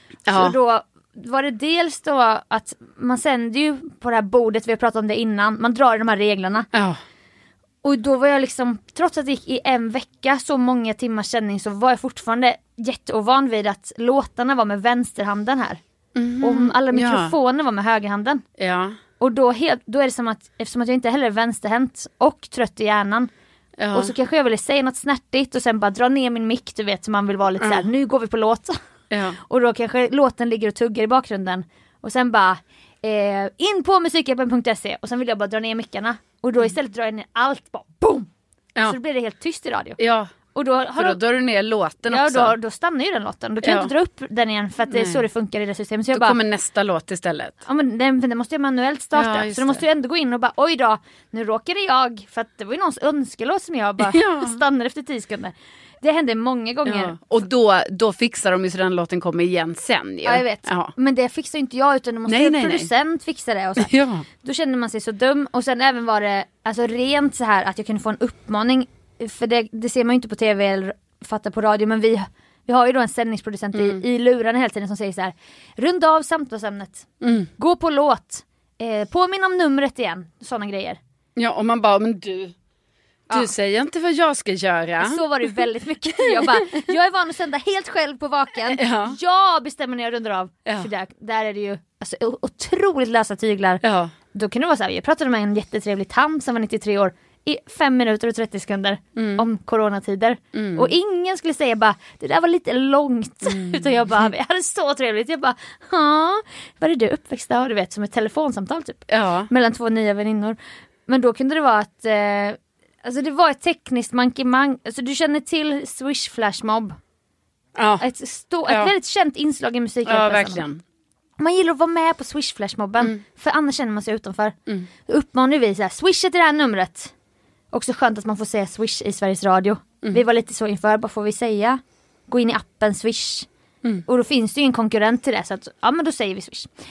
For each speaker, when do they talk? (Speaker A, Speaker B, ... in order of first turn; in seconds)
Speaker A: 0.3-0.6, 6.7-7.0, 16.1-17.3, 18.6-19.0, 23.8-24.1, 27.6-27.9, 29.1-29.4, 40.0-40.3, 41.0-42.6, 43.6-43.9, 44.9-45.2, 46.1-47.6, 49.1-49.8, 54.1-54.6, 56.9-60.9, 62.3-62.9, 63.8-64.3, 73.7-74.0, 77.2-77.5, 81.4-82.5, 83.3-85.2, 86.3-86.8, 88.8-89.2, 93.8-94.1, 99.2-99.5, 100.5-100.9, 103.5-104.3, 109.1-109.5, 117.8-118.0, 120.1-120.8
Speaker B: 0.3-6.7, 7.8-15.8, 16.4-18.4, 19.2-23.3, 23.9-28.8, 29.4-38.3, 38.9-40.0, 40.5-41.2, 42.1-46.4, 47.7-57.2, 60.2-63.9, 64.4-81.0, 85.0-117.0, 118.0-120.6, 121.4-124.5, 125.1-127.1, 127.7-133.5, 134.1-136.7